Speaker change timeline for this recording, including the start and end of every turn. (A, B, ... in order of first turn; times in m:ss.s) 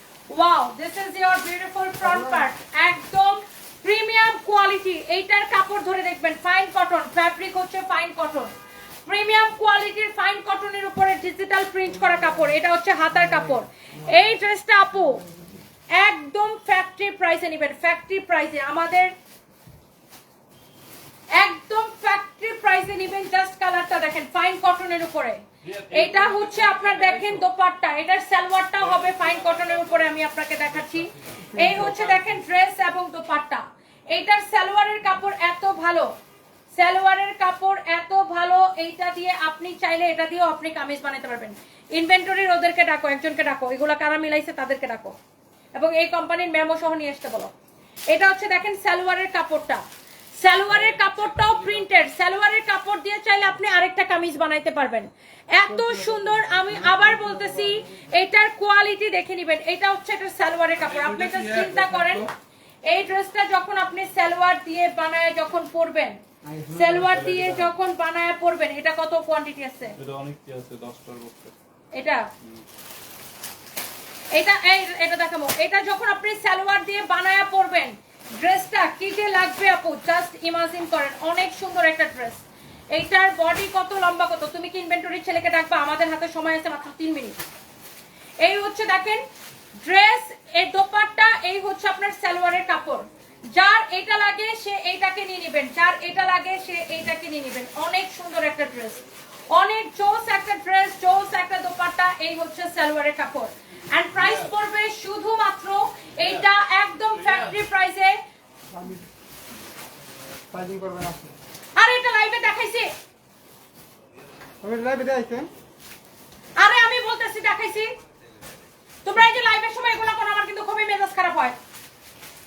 0:00.3-0:08.5 A
0:02.0-0:02.5 B
0:09.0-0:15.2 A
0:12.1-0:12.3 B
0:13.3-0:14.2 B
0:15.1-0:15.6 B
0:15.9-0:19.1 A
0:21.3-0:36.1 A
0:25.6-0:27.4 C
0:28.8-0:30.0 C
0:30.7-0:32.1 C
0:31.5-0:32.0 B
0:36.7-0:45.1 A
0:45.8-0:47.5 A
0:48.1-0:49.8 A
0:50.4-1:02.2 A
0:50.7-0:52.1 C
0:55.6-0:57.9 B
1:00.8-1:02.3 C
1:02.9-1:10.0 A
1:06.5-1:06.8 B
1:06.8-1:07.7 C
1:10.0-1:11.5 C
1:11.9-1:12.3 A
1:14.3-1:27.4 A
1:28.4-1:29.2 A
1:29.8-1:48.2 A
1:44.1-1:44.5 C
1:47.1-1:47.6 C
1:48.7-1:49.1 B
1:50.5-1:51.3 B
1:51.8-1:52.9 A
1:54.6-1:55.5 B
1:56.6-1:57.9 A
1:59.0-2:01.6 A